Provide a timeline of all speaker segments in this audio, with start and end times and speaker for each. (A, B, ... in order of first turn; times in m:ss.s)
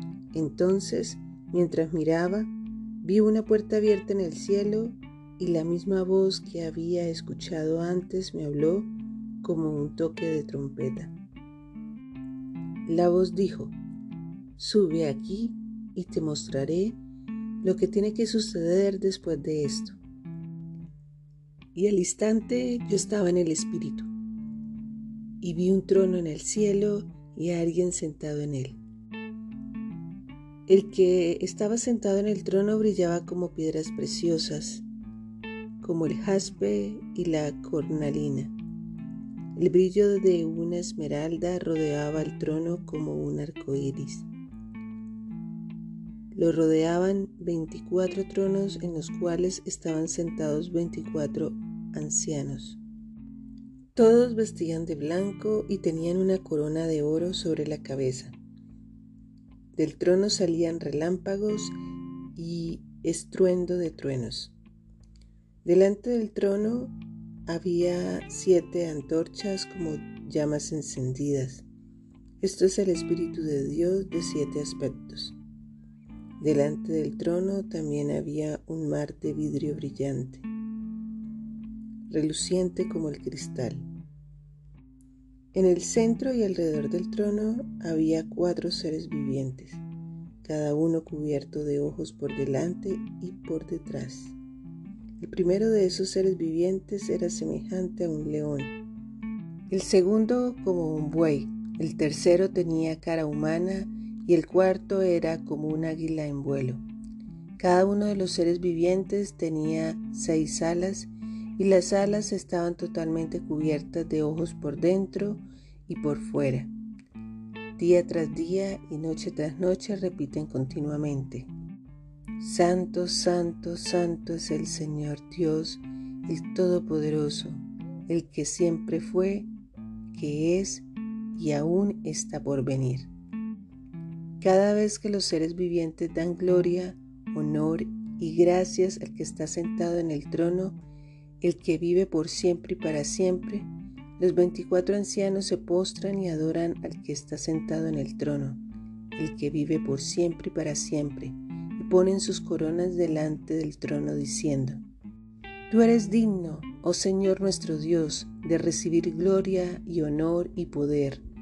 0:00.3-0:11.1 A
0:12.8-0:13.7 A
0:14.6-0:17.0 A
0:17.6-0:20.0 A
0:21.7-0:24.1 A
0:25.4-0:28.8 A
0:30.7-0:34.8 A
0:35.8-0:38.5 A
0:39.6-0:44.3 A
0:46.3-0:52.8 A
0:53.9-0:58.3 A
0:59.7-1:01.7 A
1:02.3-1:04.5 A
1:05.6-1:07.0 A
1:07.5-1:11.6 A
1:12.4-1:15.4 A
1:16.4-1:20.4 A
1:22.1-1:23.8 A
1:25.5-1:29.8 A
1:30.4-1:34.4 A
1:35.2-1:38.7 A
1:39.7-1:46.8 A
1:47.6-1:56.7 A
1:57.8-2:01.5 A
2:02.4-2:09.5 A
2:10.1-2:13.1 A
2:14.4-2:20.8 A
2:21.4-2:28.6 A
2:29.1-2:34.8 A
2:35.7-2:41.2 A